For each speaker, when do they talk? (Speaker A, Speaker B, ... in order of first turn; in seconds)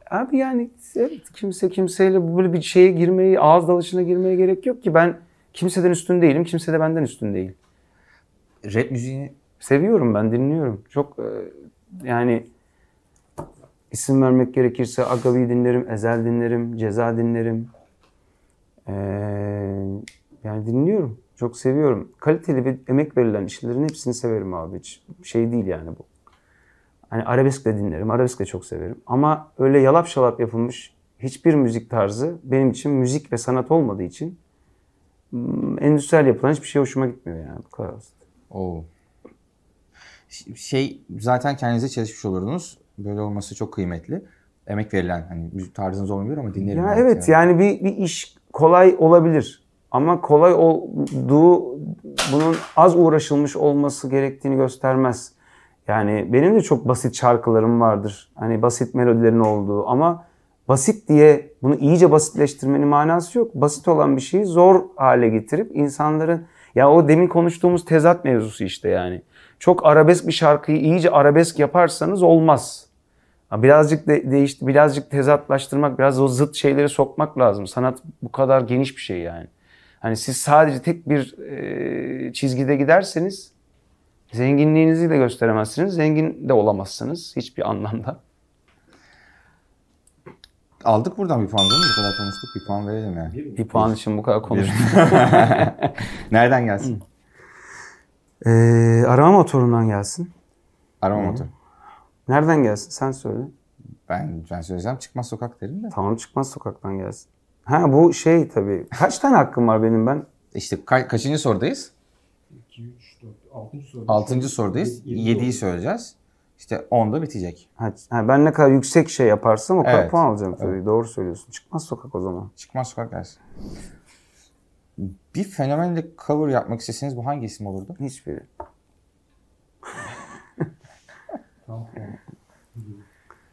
Speaker A: 0.1-7.5, 9.6-12.5, 13.9-17.7, 18.9-26.1, 27.1-34.4, 35.3-38.1, 46.6-55.3, 55.9-72.9, 73.5-79.5, 80.0-83.5, 84.3-88.2, 93.5-95.9, 98.4-100.3, 101.1-101.5, 102.3-103.5, 105.9-110.2, 117.8-122.5, 128.0-128.5
Speaker B: 8.6-9.4, 38.5-38.9, 40.3-47.4, 90.8-93.9, 94.5-97.0, 101.0-101.5, 104.1-105.9, 110.5-111.9, 114.1-117.6, 119.8-120.8, 122.6-123.4, 125.0-128.0
Speaker C: 93.3-93.7, 112.5-115.6, 131.7-132.2, 132.7-133.0